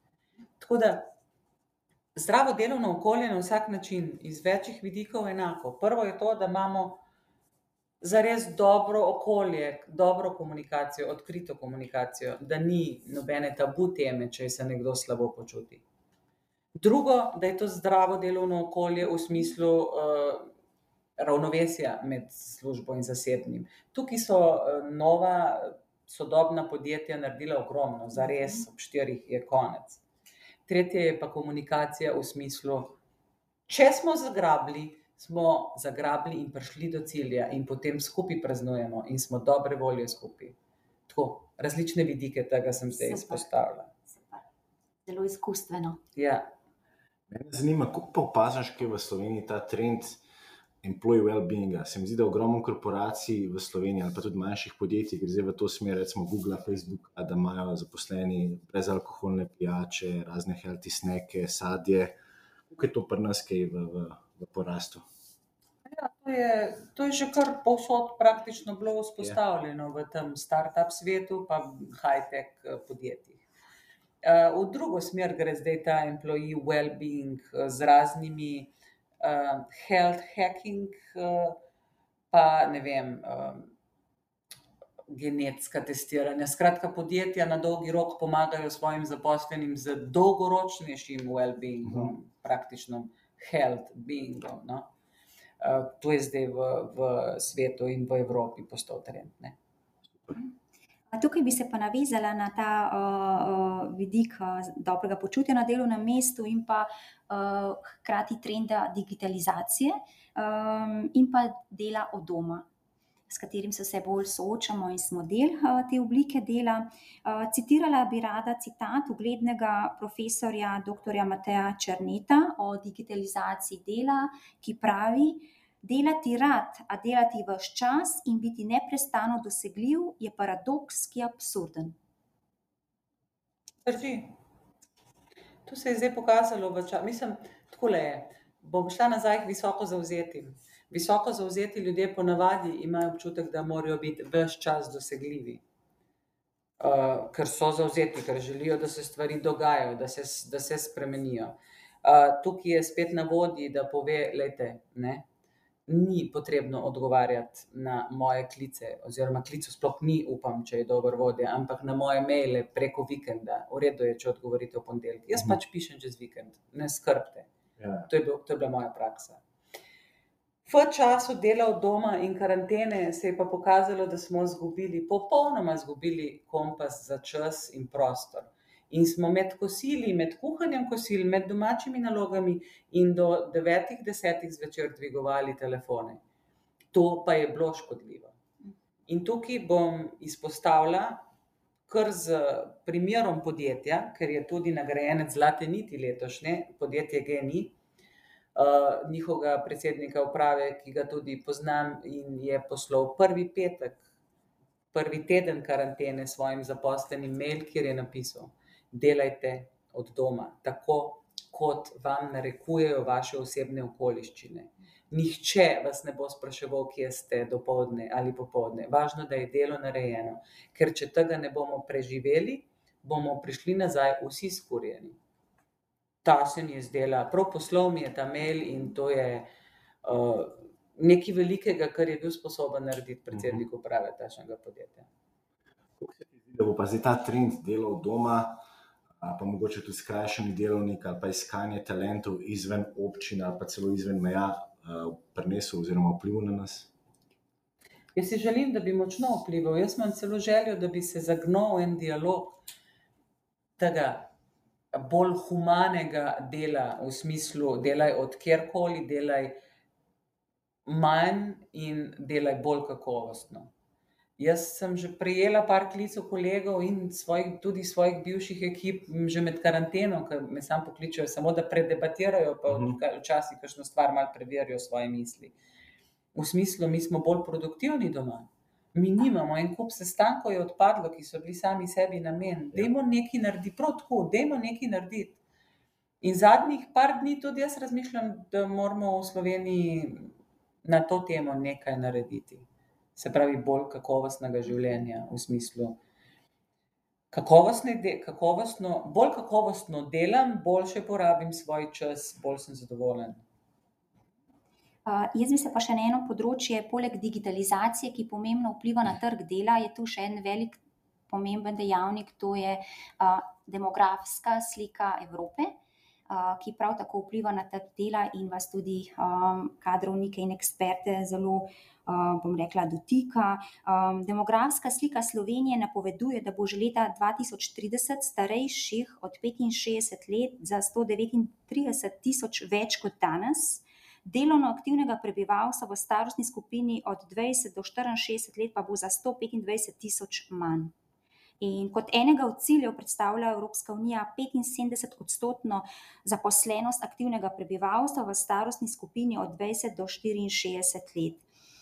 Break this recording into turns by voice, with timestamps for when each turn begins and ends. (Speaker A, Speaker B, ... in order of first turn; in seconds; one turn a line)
Speaker A: 0.6-1.1
Speaker A: 2.1-7.0
Speaker A: 8.0-15.8
Speaker A: 16.8-20.5
Speaker A: 21.2-30.0
Speaker A: 30.7-33.0
Speaker A: 33.7-40.6
Speaker A: 41.1-43.9
Speaker B: 43.0-43.5
Speaker B: 44.1-44.5
Speaker B: 45.1-46.0
Speaker A: 46.2-46.5
Speaker C: 47.3-50.2
Speaker C: 50.8-62.2
Speaker C: 62.7-65.0
Speaker A: 65.8-73.4
Speaker A: 74.2-81.6
Speaker A: 82.3-83.7
Speaker A: 85.1-94.9
Speaker A: 95.6-99.6
Speaker B: 101.1-112.7
Speaker B: 113.3-132.0
Speaker A: 133.8-134.4
Speaker A: 135.7-145.6
Speaker A: 146.8-155.3
Speaker A: 155.9-167.5
Speaker C: 167.8-168.1
Speaker A: 168.1-169.4
Speaker A: 170.7-186.2
Speaker A: 186.9-188.3
Speaker A: 189.1-191.2
Speaker A: 191.9-197.8
Speaker A: 198.6-204.0
Speaker A: 204.9-225.2
Speaker A: 226.2-229.5
Speaker A: 230.0-235.1
Speaker C: 233.3-233.6
Speaker C: 236.0-238.6
Speaker C: 239.2-246.9
Speaker A: 248.2-252.6
Speaker A: 253.8-254.3
Speaker A: 254.9-259.6
Speaker A: 260.9-263.7
Speaker A: 264.4-275.6
Speaker C: 272.7-273.0
Speaker A: 276.3-285.4
Speaker A: 286.2-290.3
Speaker A: 290.8-296.0
Speaker A: 297.3-303.4
Speaker B: 305.1-310.8
Speaker B: 311.3-315.8
Speaker B: 316.3-340.9
Speaker B: 341.6-351.4